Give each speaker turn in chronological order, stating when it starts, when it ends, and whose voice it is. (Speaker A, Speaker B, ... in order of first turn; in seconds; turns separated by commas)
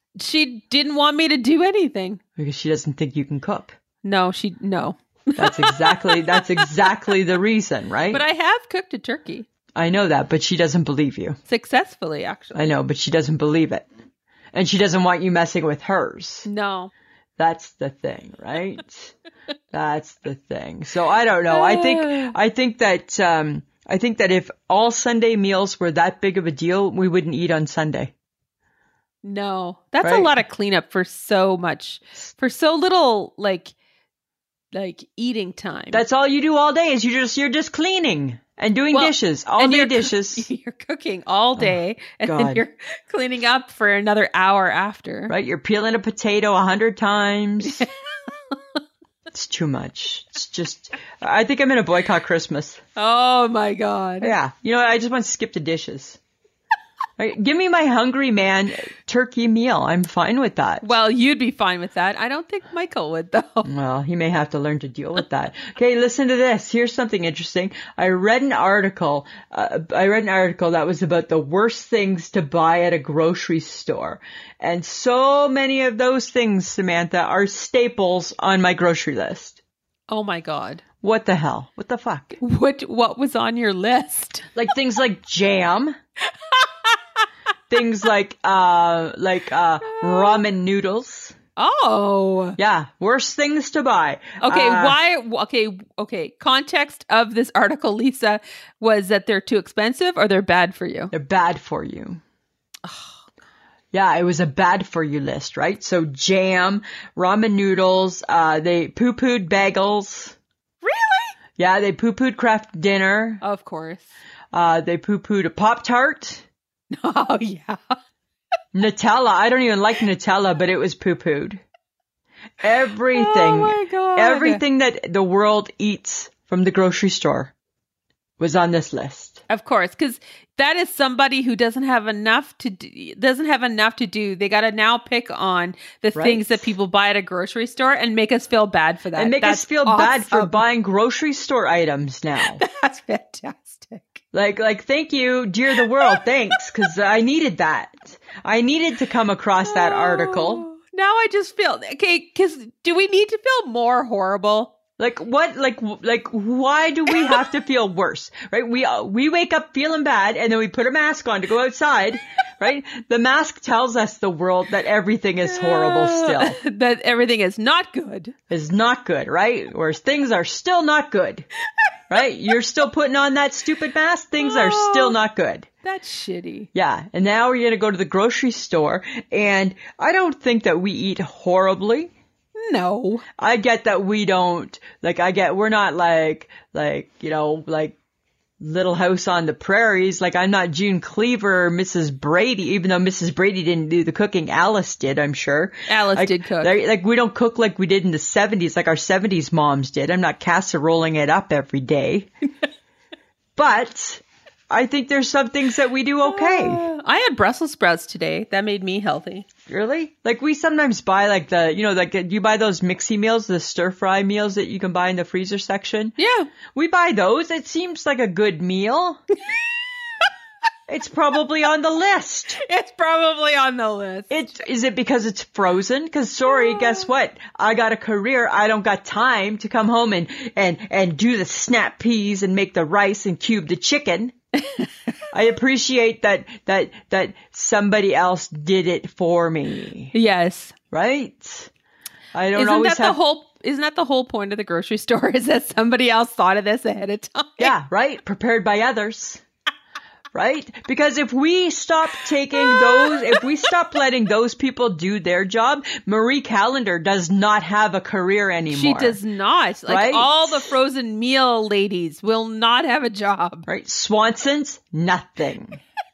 Speaker A: 0.2-2.2, Speaker B: 2.4-3.7, Speaker A: 4.0-6.7, Speaker B: 5.4-8.2, Speaker A: 8.1-9.5, Speaker B: 9.7-11.4, Speaker A: 11.5-12.6, Speaker B: 12.5-13.9, Speaker B: 14.5-16.5, Speaker A: 16.4-16.9, Speaker B: 17.4-19.1, Speaker B: 19.7-28.1, Speaker A: 21.5-22.3, Speaker A: 29.2-33.7, Speaker B: 30.0-30.3, Speaker A: 34.7-36.0, Speaker B: 35.9-40.5, Speaker A: 38.9-45.3, Speaker B: 41.6-42.6, Speaker B: 45.3-47.8, Speaker A: 47.6-48.8, Speaker B: 49.3-52.8, Speaker A: 53.0-54.4, Speaker B: 54.2-56.2, Speaker B: 57.2-60.9, Speaker A: 60.8-63.7, Speaker B: 63.6-79.6, Speaker A: 80.1-80.8, Speaker B: 81.0-82.4, Speaker A: 82.4-84.5, Speaker B: 84.5-85.9, Speaker A: 86.3-87.2, Speaker B: 87.7-91.3, Speaker A: 89.8-90.4, Speaker A: 91.6-92.6, Speaker B: 92.6-95.0, Speaker A: 94.4-101.1, Speaker B: 101.1-102.2, Speaker A: 102.8-103.1, Speaker B: 103.9-110.3, Speaker A: 110.8-111.3, Speaker B: 111.6-113.4, Speaker A: 113.4-114.1, Speaker B: 114.5-116.4, Speaker A: 116.9-118.0, Speaker B: 118.7-121.6, Speaker B: 122.6-127.5, Speaker A: 123.1-124.6, Speaker B: 128.4-129.4, Speaker A: 129.5-140.6, Speaker B: 136.1-136.7, Speaker B: 139.2-142.6, Speaker A: 142.6-144.2, Speaker B: 144.3-150.7, Speaker A: 145.9-146.2, Speaker A: 149.7-154.7, Speaker B: 155.0-166.6, Speaker A: 165.4-168.3, Speaker B: 168.5-171.5, Speaker B: 172.1-175.7, Speaker A: 174.4-175.2, Speaker A: 175.8-176.7, Speaker B: 176.7-182.1, Speaker A: 182.6-183.2, Speaker B: 183.4-188.0, Speaker B: 188.6-202.3, Speaker A: 195.9-196.8, Speaker B: 203.6-206.8, Speaker A: 206.2-209.5, Speaker B: 209.7-216.1, Speaker A: 216.2-216.5, Speaker B: 216.7-219.2, Speaker B: 220.9-222.6, Speaker A: 222.6-224.5, Speaker B: 224.3-234.3, Speaker A: 226.6-227.0, Speaker A: 234.6-234.9, Speaker B: 235.3-240.1, Speaker A: 240.1-240.7, Speaker B: 240.9-241.7, Speaker B: 242.3-243.2, Speaker A: 242.5-247.7, Speaker B: 247.6-249.4, Speaker B: 250.3-259.2, Speaker A: 252.6-253.4, Speaker A: 258.7-263.6, Speaker B: 259.9-260.7, Speaker B: 263.7-265.8